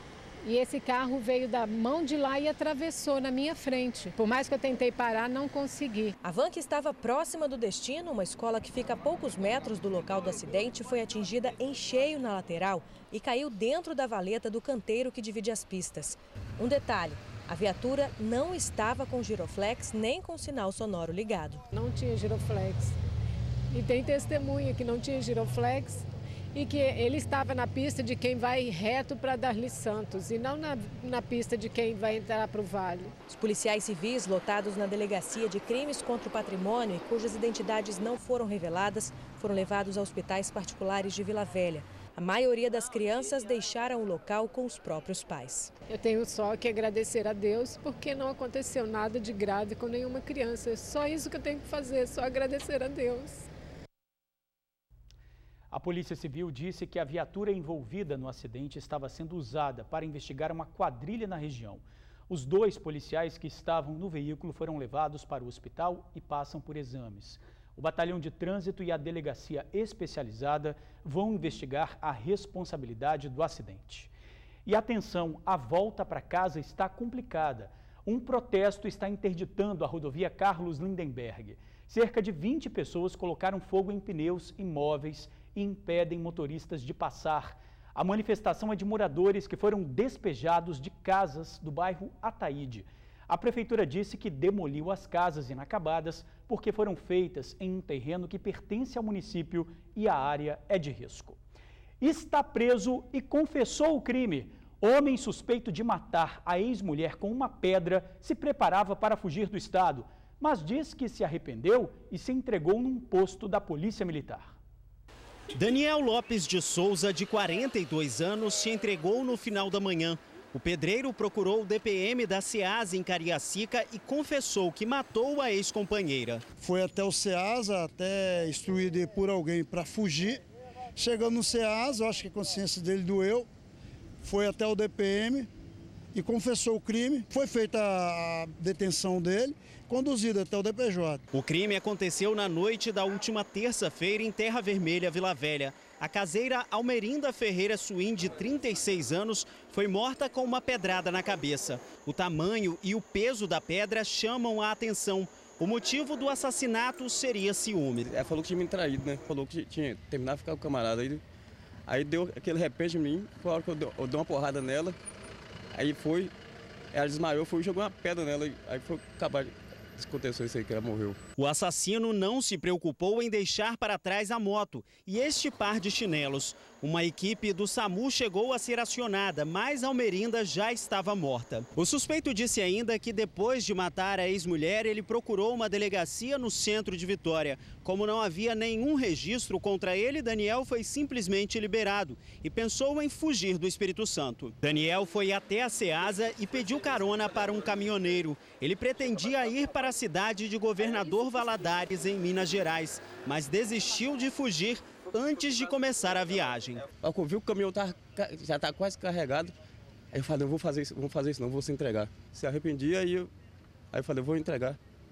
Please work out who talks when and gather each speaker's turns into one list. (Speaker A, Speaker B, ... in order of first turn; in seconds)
Speaker A: 0.4-6.1, 21.7-22.9, 23.7-33.1, 45.9-53.5
Speaker B: 6.2-21.6, 33.3-45.7
Speaker C: 55.7-74.1, 74.7-101.4, 102.0-114.6
Speaker D: 115.5-126.4, 141.3-158.1, 171.4-206.8
Speaker E: 126.6-130.4, 131.0-133.5, 134.2-135.5, 136.1-141.2
Speaker F: 158.1-161.2, 161.9-165.0, 165.8-166.3, 166.9-171.2, 207.0-209.6, 210.1-213.3, 213.9-214.8